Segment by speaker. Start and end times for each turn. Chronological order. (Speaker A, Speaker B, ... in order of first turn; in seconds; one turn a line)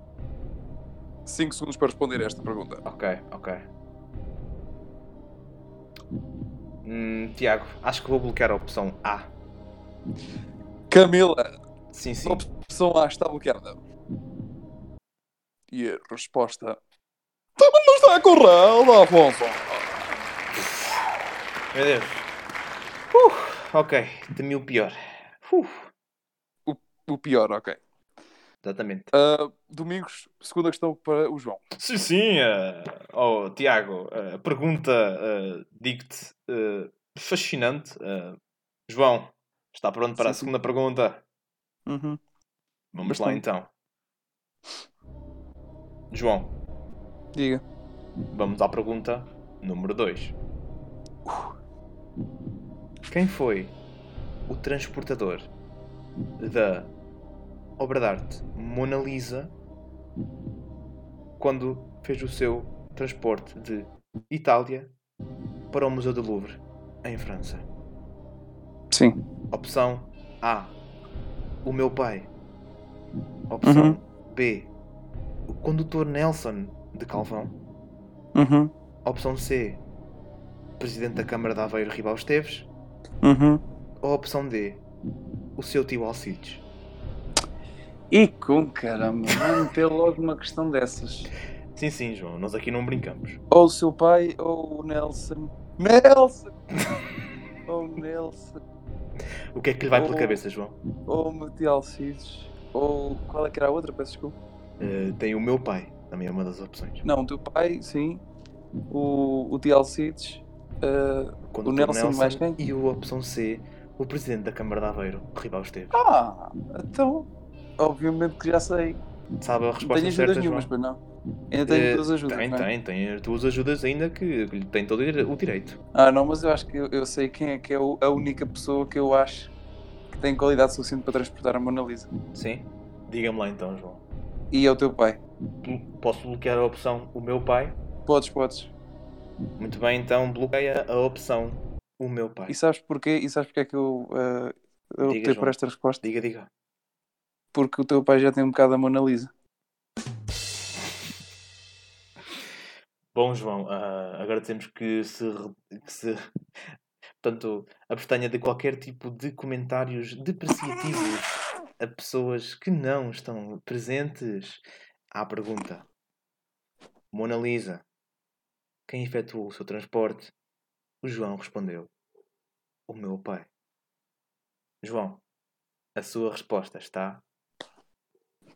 Speaker A: 1.2-2.8
Speaker B: 2.8-3.7
Speaker B: 6.8-9.3
Speaker A: 10.9-11.5
Speaker B: 11.9-12.4
Speaker A: 12.2-13.8
Speaker A: 15.7-16.8
Speaker A: 17.6-20.1
Speaker B: 21.7-22.3
Speaker B: 23.1-25.9
Speaker A: 26.6-27.8
Speaker B: 28.6-29.1
Speaker A: 29.1-31.6
Speaker B: 31.8-38.4
Speaker B: 38.9-41.2
Speaker A: 40.2-40.5
Speaker A: 41.9-42.2
Speaker B: 42.9-43.7
Speaker A: 43.0-43.4
Speaker B: 46.1-46.5
Speaker A: 47.3-47.6
Speaker B: 48.3-50.4
Speaker B: 53.1-53.8
Speaker B: 54.5-55.5
Speaker B: 56.4-56.9
Speaker B: 57.8-59.5
Speaker B: 61.4-64.9
Speaker B: 65.7-67.7
Speaker A: 68.9-69.2
Speaker B: 69.5-70.7
Speaker B: 71.6-72.3
Speaker B: 73.5-74.7
Speaker A: 73.6-74.0
Speaker B: 75.5-77.5
Speaker A: 78.3-78.7
Speaker B: 79.0-79.8
Speaker B: 80.8-82.7
Speaker A: 83.2-83.6
Speaker B: 84.0-84.8
Speaker B: 85.6-86.6
Speaker A: 88.1-91.3
Speaker B: 91.7-93.4
Speaker A: 93.5-96.5
Speaker A: 97.7-98.6
Speaker B: 99.5-100.8
Speaker A: 99.9-100.4
Speaker A: 101.0-104.4
Speaker B: 104.8-107.0
Speaker A: 107.0-108.2
Speaker A: 108.9-112.6
Speaker B: 111.5-116.0
Speaker A: 115.9-117.3
Speaker A: 117.8-119.0
Speaker B: 119.4-120.7
Speaker A: 119.8-121.0
Speaker A: 121.5-122.7
Speaker B: 121.7-125.8
Speaker A: 125.9-129.5
Speaker A: 130.1-132.1
Speaker B: 132.3-134.0
Speaker A: 134.5-135.2
Speaker B: 135.6-137.8
Speaker A: 138.1-138.7
Speaker B: 139.6-142.5
Speaker A: 142.5-146.0
Speaker B: 145.0-146.5
Speaker A: 147.5-149.3
Speaker B: 153.1-156.2
Speaker B: 157.2-165.8
Speaker B: 167.1-167.8
Speaker B: 168.9-170.3
Speaker B: 171.0-171.9
Speaker B: 172.9-173.5
Speaker B: 174.8-175.2
Speaker B: 175.9-177.2